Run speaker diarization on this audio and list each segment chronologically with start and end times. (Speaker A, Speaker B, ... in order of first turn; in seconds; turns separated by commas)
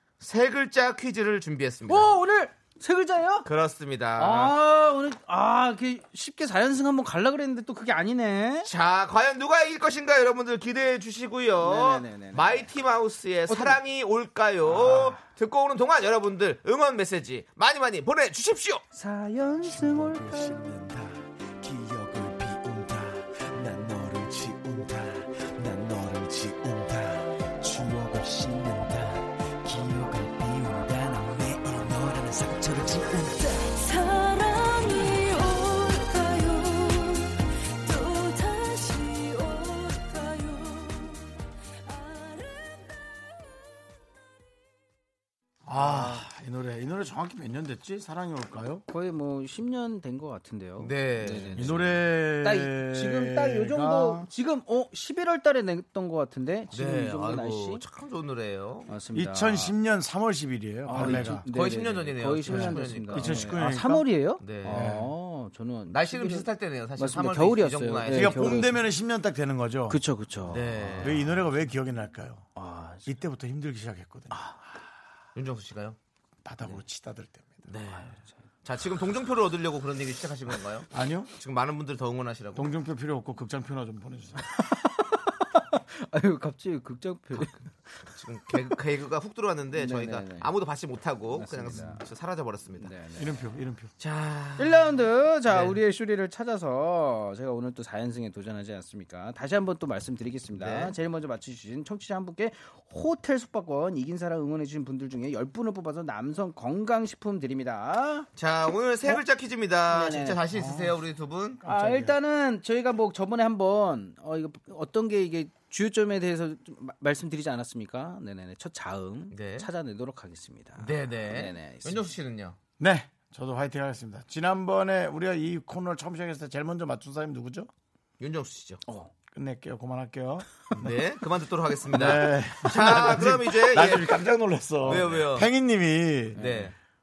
Speaker A: 0.2-2.2, Speaker B: 1.9-3.5, Speaker A: 3.5-4.5, Speaker B: 4.2-8.7, Speaker A: 8.7-18.8, Speaker B: 11.6-12.7, Speaker B: 13.5-13.8, Speaker B: 14.7-15.2, Speaker B: 18.9-20.6, Speaker C: 19.6-33.6, Speaker D: 33.6-41.3, Speaker D: 41.9-43.2, Speaker E: 45.7-48.8, Speaker B: 45.7-46.2, Speaker B: 48.9-57.8, Speaker A: 50.8-51.8, Speaker E: 51.6-54.3, Speaker A: 56.7-58.9, Speaker B: 58.9-59.8, Speaker E: 59.1-61.5, Speaker B: 60.9-68.8, Speaker A: 61.0-63.5, Speaker E: 62.5-64.1, Speaker A: 64.4-65.0, Speaker E: 64.7-65.1, Speaker A: 65.9-68.7, Speaker E: 68.1-70.0, Speaker B: 69.9-71.3, Speaker A: 70.5-71.2, Speaker E: 71.0-72.5, Speaker B: 72.6-73.1, Speaker E: 73.1-74.5, Speaker A: 75.3-76.0, Speaker E: 76.4-77.7, Speaker A: 77.7-82.7, Speaker B: 77.9-78.3, Speaker E: 80.9-81.3, Speaker E: 82.5-84.5, Speaker B: 84.4-87.7, Speaker A: 88.1-92.9, Speaker B: 89.8-90.5, Speaker B: 91.3-92.0, Speaker B: 92.8-93.5, Speaker E: 93.2-93.9, Speaker A: 94.0-95.8, Speaker B: 94.6-108.3, Speaker A: 100.6-100.9, Speaker A: 108.4-111.6, Speaker B: 109.9-110.6, Speaker B: 111.6-122.1, Speaker E: 111.6-112.2, Speaker A: 119.3-119.7, Speaker A: 120.8-122.6, Speaker E: 122.8-127.7, Speaker A: 128.2-128.8, Speaker B: 128.9-129.1, Speaker E: 129.3-130.9, Speaker A: 130.8-134.2, Speaker E: 131.9-136.4, Speaker A: 134.8-135.5, Speaker B: 136.4-136.7, Speaker A: 136.4-136.7